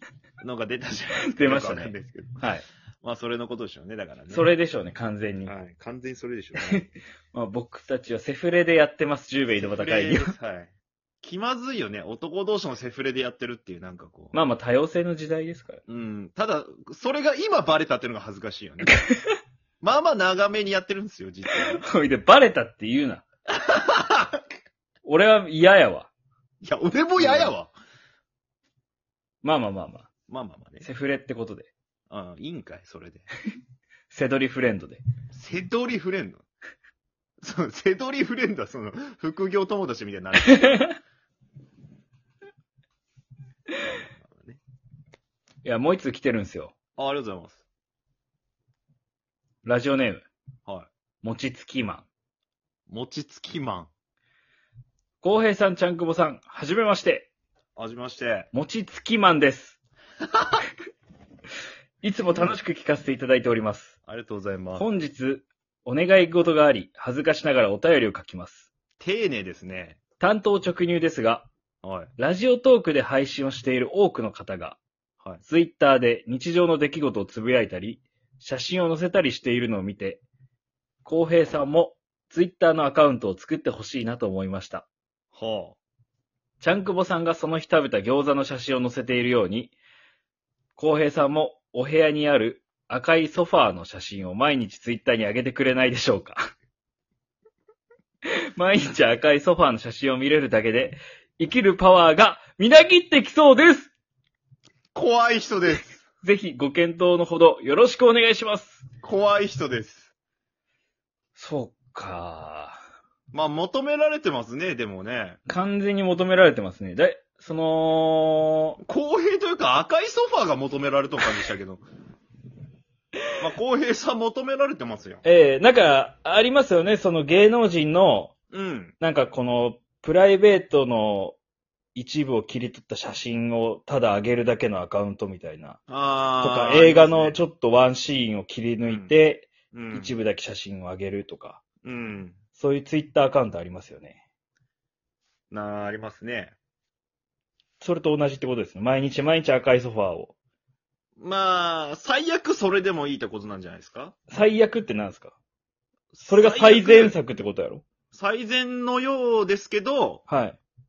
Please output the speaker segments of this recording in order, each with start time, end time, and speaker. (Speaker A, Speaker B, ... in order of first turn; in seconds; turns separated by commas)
Speaker A: 0.4-2.4, Speaker B: 1.2-2.6, Speaker A: 3.0-4.5, Speaker B: 4.3-5.5, Speaker A: 5.4-6.9, Speaker B: 6.7-10.3, Speaker A: 9.5-14.3, Speaker B: 14.3-15.8, Speaker A: 15.9-19.0, Speaker A: 19.8-21.8, Speaker B: 21.6-23.2, Speaker A: 23.6-24.4, Speaker B: 25.0-26.1, Speaker A: 26.6-27.7, Speaker B: 27.2-27.5, Speaker B: 29.4-30.1, Speaker A: 30.3-30.9, Speaker B: 30.8-31.7, Speaker A: 32.1-33.3, Speaker B: 34.1-35.0, Speaker A: 35.3-36.4, Speaker A: 37.4-40.9, Speaker B: 40.5-40.9, Speaker A: 43.8-44.6, Speaker B: 45.6-46.7, Speaker A: 47.0-47.6, Speaker B: 49.6-50.2, Speaker B: 51.2-52.0, Speaker A: 52.9-53.9, Speaker B: 55.2-57.3, Speaker A: 57.8-58.5, Speaker B: 58.5-59.8, Speaker B: 62.0-63.9, Speaker A: 64.0-64.9, Speaker B: 64.8-68.7, Speaker A: 69.0-70.0, Speaker B: 70.2-71.5, Speaker A: 71.8-72.1, Speaker B: 72.2-74.8, Speaker B: 75.4-80.2, Speaker B: 81.0-84.8, Speaker A: 85.3-85.8, Speaker B: 86.6-89.7, Speaker B: 90.8-96.4, Speaker B: 98.5-103.9, Speaker A: 104.9-106.0, Speaker B: 106.2-108.8, Speaker A: 109.0-110.1, Speaker B: 111.3-112.8, Speaker A: 113.3-115.4, Speaker B: 115.5-118.8, Speaker A: 118.8-121.8, Speaker A: 123.4-125.2, Speaker B: 125.2-128.3, Speaker A: 128.5-128.9, Speaker B: 129.0-131.4, Speaker B: 131.9-135.8, Speaker A: 135.9-137.4, Speaker B: 136.4-141.6, Speaker A: 138.9-139.1, Speaker A: 139.7-140.1, Speaker A: 141.8-142.4, Speaker B: 142.6-144.2, Speaker A: 145.5-146.5, Speaker B: 147.8-150.3, Speaker A: 151.2-154.1, Speaker B: 154.3-155.3, Speaker A: 156.1-157.2, Speaker B: 156.2-157.8, Speaker A: 158.1-160.2, Speaker B: 160.3-160.6